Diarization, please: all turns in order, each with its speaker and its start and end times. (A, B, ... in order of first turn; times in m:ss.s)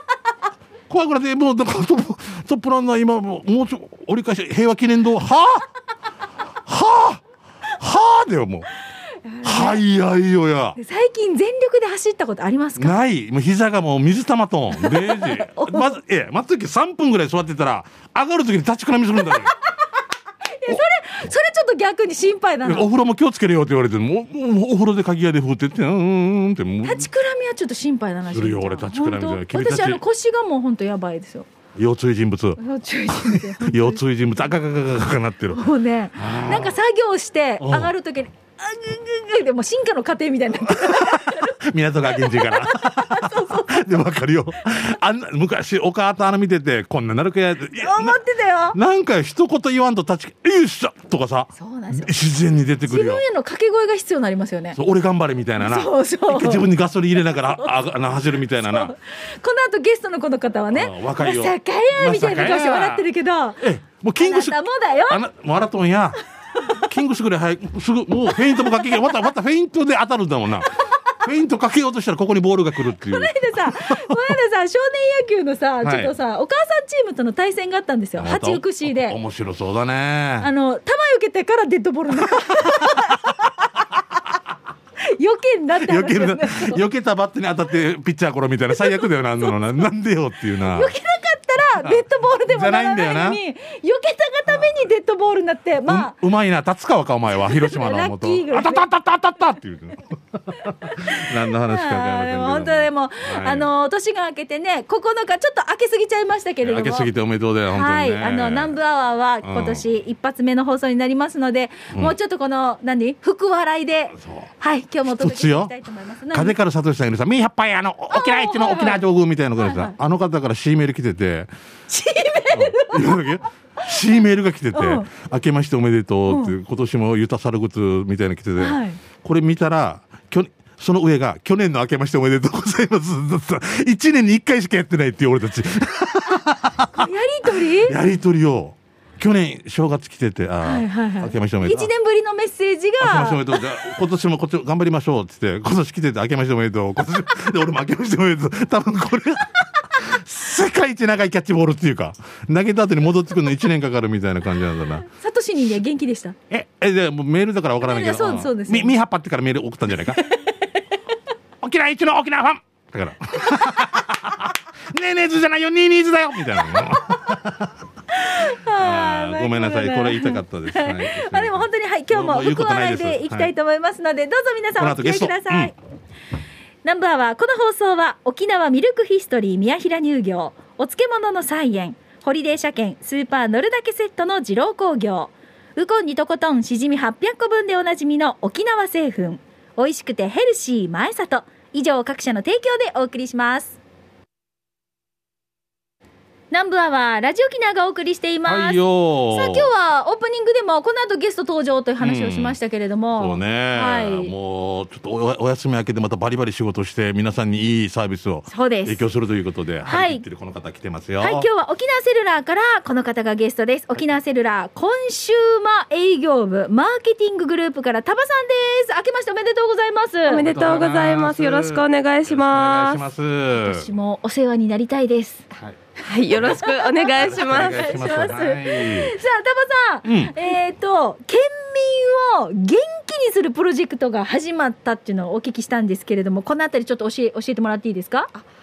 0:00.9-0:05.6 A
0:06.7-0:07.2 A
0:07.8-0:08.7 A
0:09.3-0:09.8 B
0:09.4-0:10.8 A
0:10.8-0:13.0 B
0:12.8-0:19.5 A
0:14.8-0:15.9 B
0:20.6-0:22.9 B
0:22.6-0:27.1 A
0:26.8-0:31.5 B
0:28.3-0:30.0 A
0:31.8-0:35.6 A
0:32.6-0:34.0 B
0:35.5-0:41.6 B
0:36.2-0:36.8 A
0:37.6-0:37.9 A
0:40.7-0:48.2 A
0:42.2-0:43.8 B
0:47.8-0:48.8 B
0:48.7-0:53.2 A
0:51.5-0:52.1 B
0:52.9-0:54.8 B
0:54.8-0:58.9 A
0:55.6-0:56.7 B
0:58.6-1:03.6 B
1:00.7-1:03.0 A
1:03.6-1:06.2 A
1:04.2-1:05.2 B
1:06.8-1:10.7 A
1:08.6-1:09.0 B
1:10.9-1:11.2 B
1:11.2-1:14.4 A
1:12.9-1:19.2 B
1:15.8-1:16.1 A
1:18.2-1:20.5 A
1:20.4-1:23.5 B
1:22.2-1:23.4 A
1:25.0-1:26.8 B
1:25.8-1:30.9 A
1:30.6-1:36.2 B
1:31.8-1:33.4 A
1:35.9-1:43.7 A
1:37.3-1:38.9 B
1:40.6-1:47.1 B
1:46.6-1:48.8 A
1:47.7-1:56.6 B
1:49.4-1:49.8 A
1:54.2-1:54.5 A
1:55.0-1:55.7 A
1:56.3-2:01.5 A
1:58.1-1:59.0 B
1:59.6-2:00.0 B
2:01.9-2:03.3 B
2:02.5-2:21.9 A
2:04.7-2:05.1 B
2:06.3-2:06.6 B
2:08.6-2:09.0 B
2:16.9-2:18.0 B
2:20.6-2:23.6 B
2:23.0-2:35.1 A
2:35.1-2:36.4 B
2:36.5-2:40.3 A
2:37.8-2:38.9 B
2:41.6-2:47.7 A
2:48.1-2:55.8 B
2:48.8-2:53.5 A
2:54.8-2:55.7 A
2:56.8-3:13.8 B
3:16.5-3:24.3 B
3:18.4-3:19.7 A
3:22.0-3:22.6 A
3:23.2-3:31.5 A
3:28.5-3:29.0 B
3:29.9-3:30.2 B
3:31.2-3:40.5 B
3:40.2-3:43.0 C
3:40.4-3:43.9 A
3:43.5-3:45.5 B
3:46.0-3:48.1 C
3:46.3-3:49.2 A
3:46.3-3:58.3 B
3:50.0-3:50.4 A